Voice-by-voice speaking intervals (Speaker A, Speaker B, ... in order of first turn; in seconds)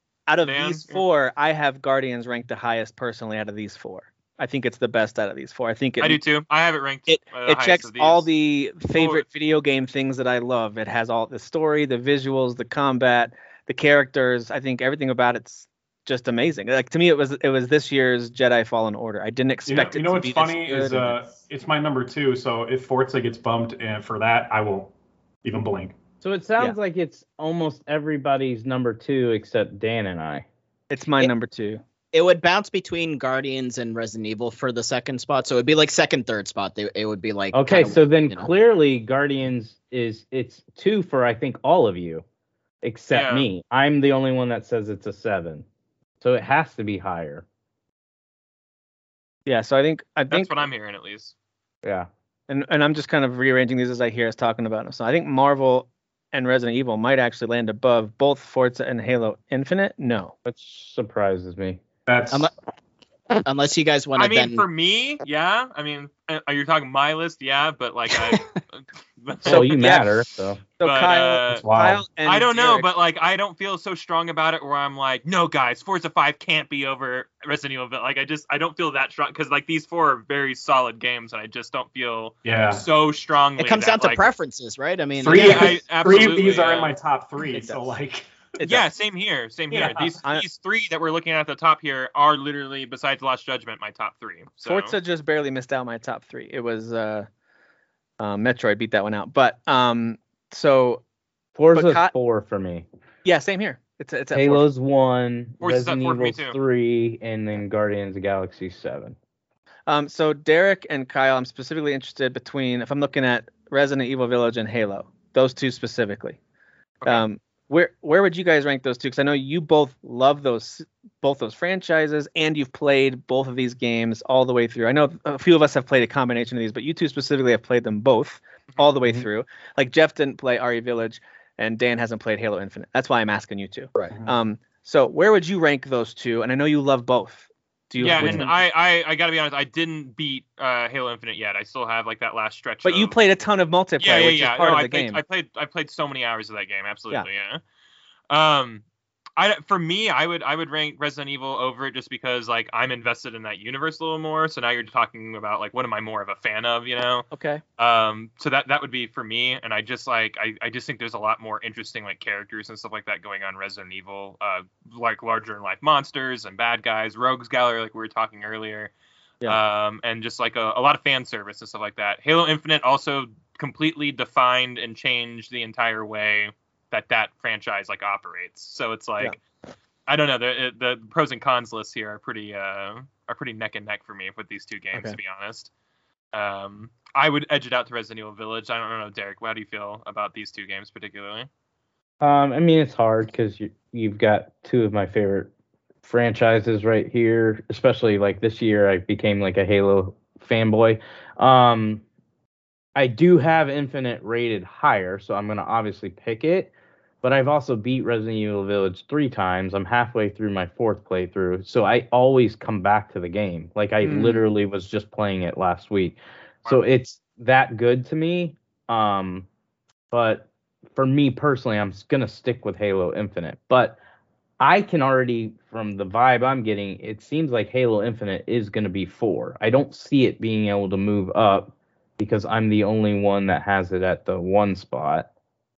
Speaker A: 0.3-6.2, 7.1-21.2, 30.9-31.8, 49.5-50.7, 52.5-60.3, 69.5-70.1, 70.8-72.9, 87.5-88.0, 88.6-88.8, 94.6-97.3, 98.2-101.0, 101.7-102.1, 103.2-104.7, 109.9-116.4, 117.1-138.6, 142.8-145.2, 157.3-157.6, 214.0-214.4
Speaker B: 0.4-1.0, 6.0-8.3, 8.9-9.2, 43.1-43.5, 50.3-51.3, 64.2-70.1, 70.8-71.7, 72.2-84.3, 85.3-86.9, 88.6-95.0, 105.6-106.6, 138.0-143.2, 144.0-147.6, 148.3-148.8, 149.4-157.3, 157.8-168.9, 169.5-179.4, 180.1-185.7, 186.3-191.5
Speaker C: 19.7-24.9, 25.4-25.9, 62.1-62.5, 71.5-72.0, 82.5-82.8, 85.2-88.3, 89.7-90.2
Speaker D: 26.2-30.5, 37.5-42.2, 42.8-45.6, 46.2-47.5, 60.5-61.8, 69.5-70.6, 101.6-102.9, 104.3-109.2, 138.2-138.4, 192.2-195.5, 196.0-202.0, 203.0-206.7, 207.2-219.5, 220.1-224.0, 224.6-235.3
Speaker E: 32.1-38.5, 63.4-64.7, 83.6-85.8